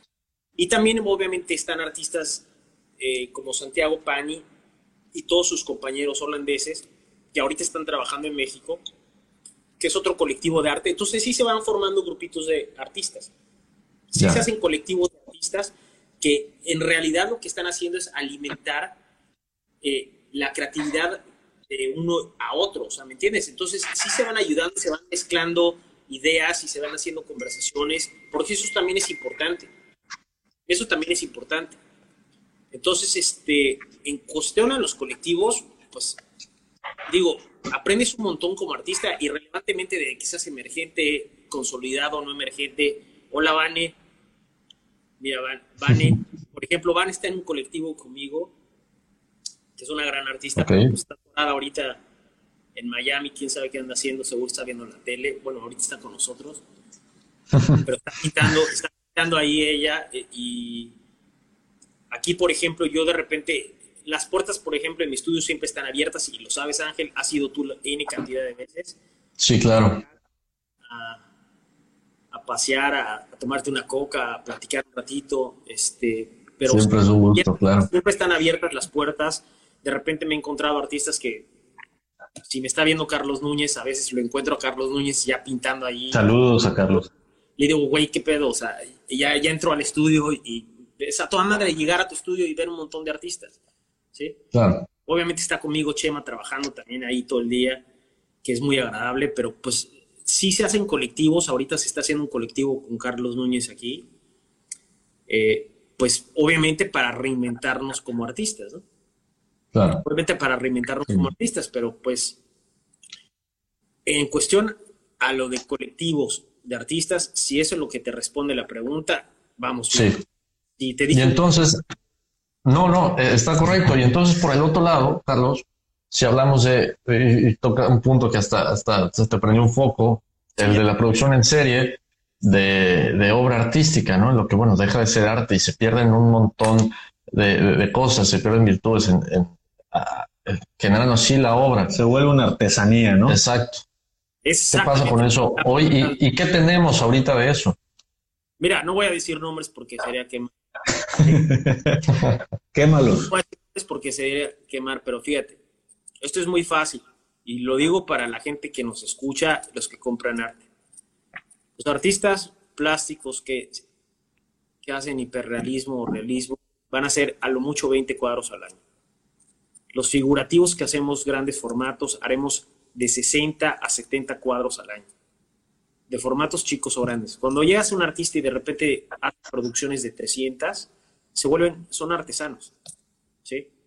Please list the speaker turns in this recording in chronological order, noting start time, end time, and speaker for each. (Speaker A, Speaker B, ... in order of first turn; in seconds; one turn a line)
Speaker A: 0.6-2.5
Speaker A: 3.0-4.4
Speaker A: 5.1-8.8
Speaker A: 9.8-13.3
Speaker A: 14.1-19.0
Speaker B: 14.2-14.4
Speaker A: 19.8-29.7
Speaker A: 30.7-31.8
Speaker A: 32.7-36.2
Speaker A: 37.1-43.9
Speaker A: 45.2-48.5
Speaker A: 49.8-52.0
Speaker B: 50.6-50.9
Speaker A: 52.8-56.6
Speaker A: 57.8-60.9
Speaker A: 62.1-69.0
Speaker B: 69.4-70.0
Speaker A: 70.9-71.2
Speaker A: 72.3-81.5
Speaker B: 76.7-77.9
Speaker A: 82.5-86.3
Speaker C: 86.1-87.1
Speaker A: 87.6-93.6
Speaker B: 94.5-94.9
Speaker A: 95.1-97.8
Speaker A: 98.4-104.0
Speaker A: 105.3-108.8
Speaker B: 109.7-110.0
Speaker A: 110.0-112.4
Speaker A: 114.1-120.1
Speaker B: 119.9-120.2
Speaker A: 120.8-121.4
Speaker B: 121.1-121.8
Speaker B: 122.7-142.0
Speaker C: 141.9-143.4
Speaker B: 143.3-143.8
Speaker A: 144.4-146.2
Speaker B: 144.7-147.8
Speaker A: 148.6-150.5
Speaker C: 151.5-152.0
Speaker C: 152.7-153.3
Speaker A: 153.3-155.6
Speaker A: 156.2-160.6
Speaker A: 161.8-163.8
Speaker A: 164.8-168.8
Speaker A: 169.9-175.1
Speaker A: 176.1-182.7